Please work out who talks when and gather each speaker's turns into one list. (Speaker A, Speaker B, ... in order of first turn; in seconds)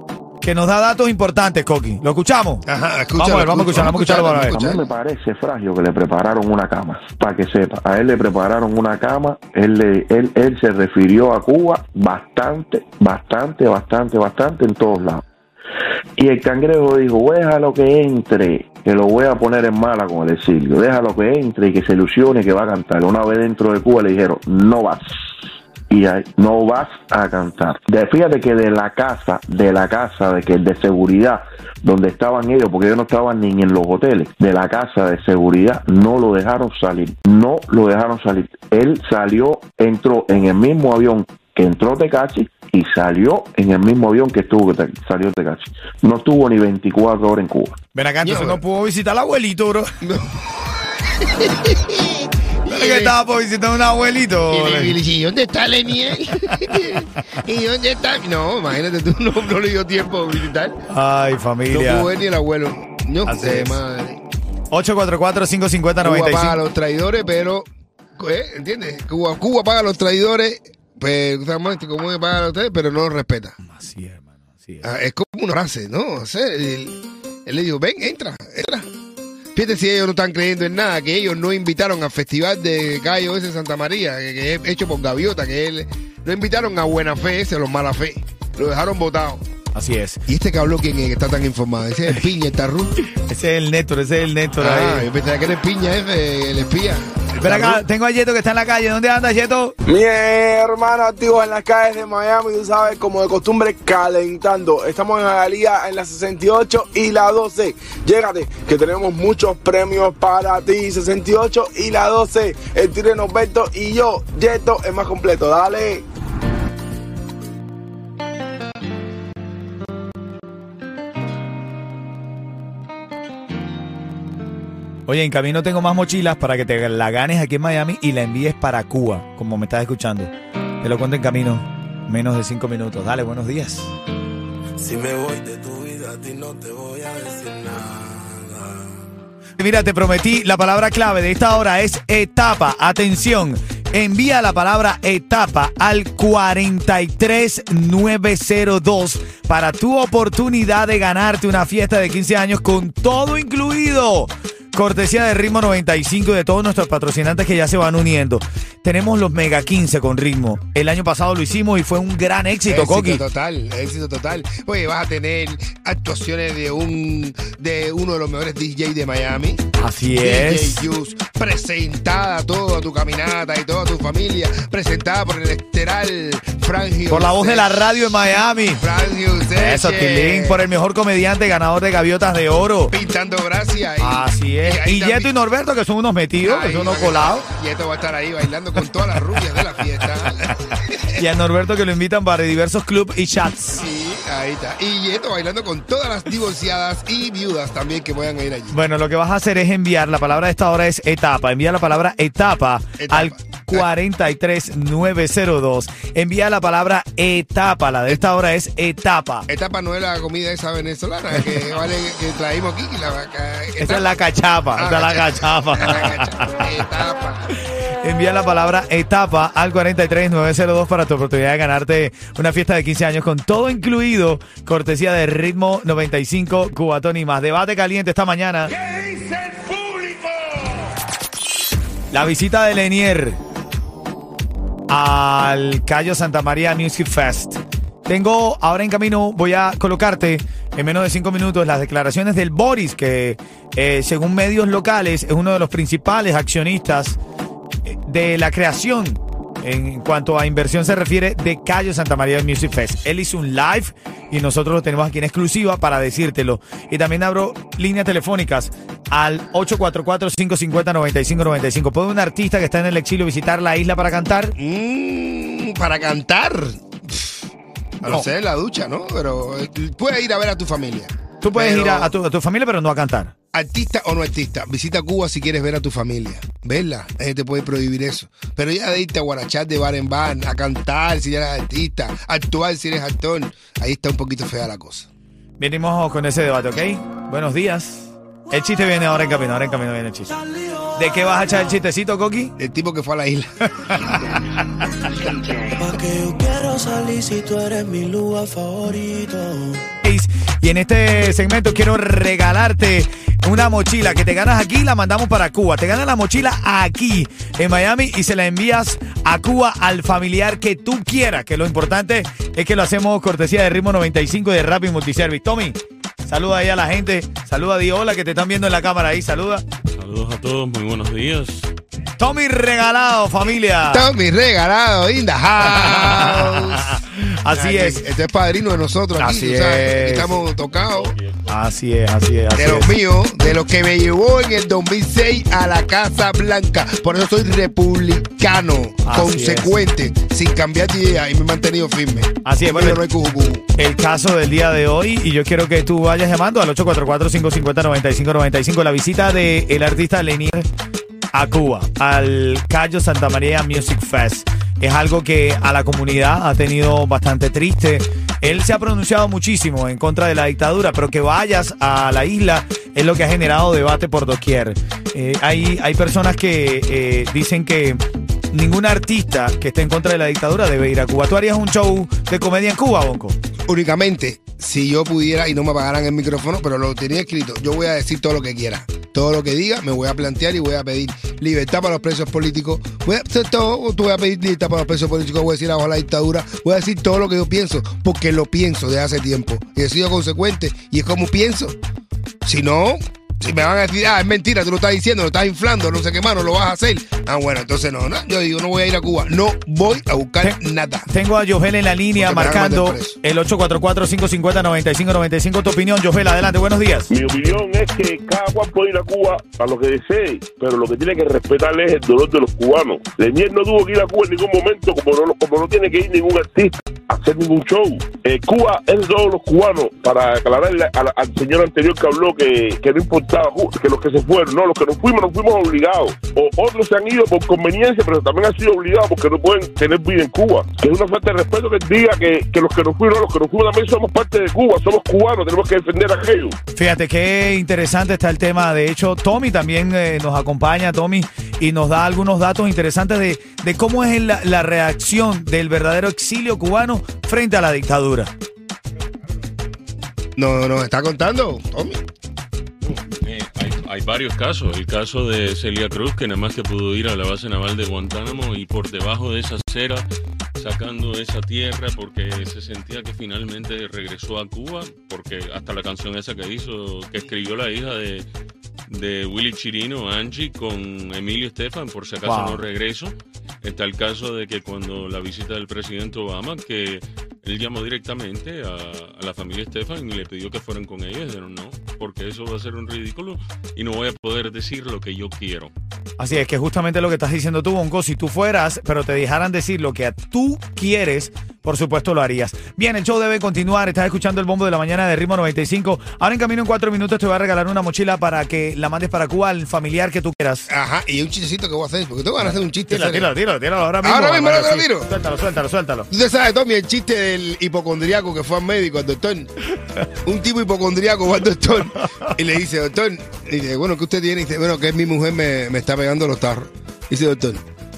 Speaker A: 0.4-2.6, 3.2-4.7, 47.9-49.9, 52.7-55.0, 60.9-62.1, 63.2-63.8, 64.7-66.6, 73.6-74.8, 89.7-90.2, 93.1-95.1, 97.4-99.7, 125.1-133.9, 139.6-163.2, 169.8-170.8, 177.1-178.8, 179.6-182.9, 184.0-187.4, 191.1-193.8, 198.7-209.4, 213.8-216.8, 218.0-228.7, 232.1-233.4, 234.9-247.2, 247.8-264.5, 271.4-273.3, 285.6-290.3, 290.9-292.5, 293.8-294.8, 300.0-319.6, 322.2-324.1, 325.7-328.0, 329.2-330.4, 331.5-332.9, 339.0-339.8, 342.4-343.0, 343.8-350.6, 351.3-368.0, 368.5-373.4, 401.1-407.1, 436.7-448.3, 472.2-472.6, 486.2-500.7, 502.4-506.1
Speaker B: 2.6-4.8, 48.2-48.6, 50.0-50.4, 51.2-53.1, 54.5-60.8, 61.7-64.2, 66.0-67.7, 68.2-73.5, 74.8-78.8, 79.5-89.4, 90.3-92.9, 94.6-97.8, 162.7-169.6, 170.2-178.2, 178.8-180.6, 182.9-185.3, 186.4-191.2, 193.7-198.8, 203.0-203.9, 209.5-214.1, 214.8-217.5, 264.6-267.4, 268.0-272.1, 273.5-285.1, 292.6-294.1, 323.9-327.0, 327.5-331.1, 332.5-343.6, 373.7-391.8, 392.4-401.1, 402.2-403.2, 450.4-452.0, 500.7-503.3, 504.0-505.1, 506.1-509.5, 510.2-517.6
Speaker C: 4.5-15.2, 16.2-25.0, 25.9-47.7
Speaker D: 99.8-116.0, 134.8-138.5, 228.8-230.3
Speaker E: 296.6-299.5
Speaker F: 319.9-321.7, 330.8-331.5, 453.2-460.1, 460.6-468.3, 468.9-485.7
Speaker G: 407.1-436.6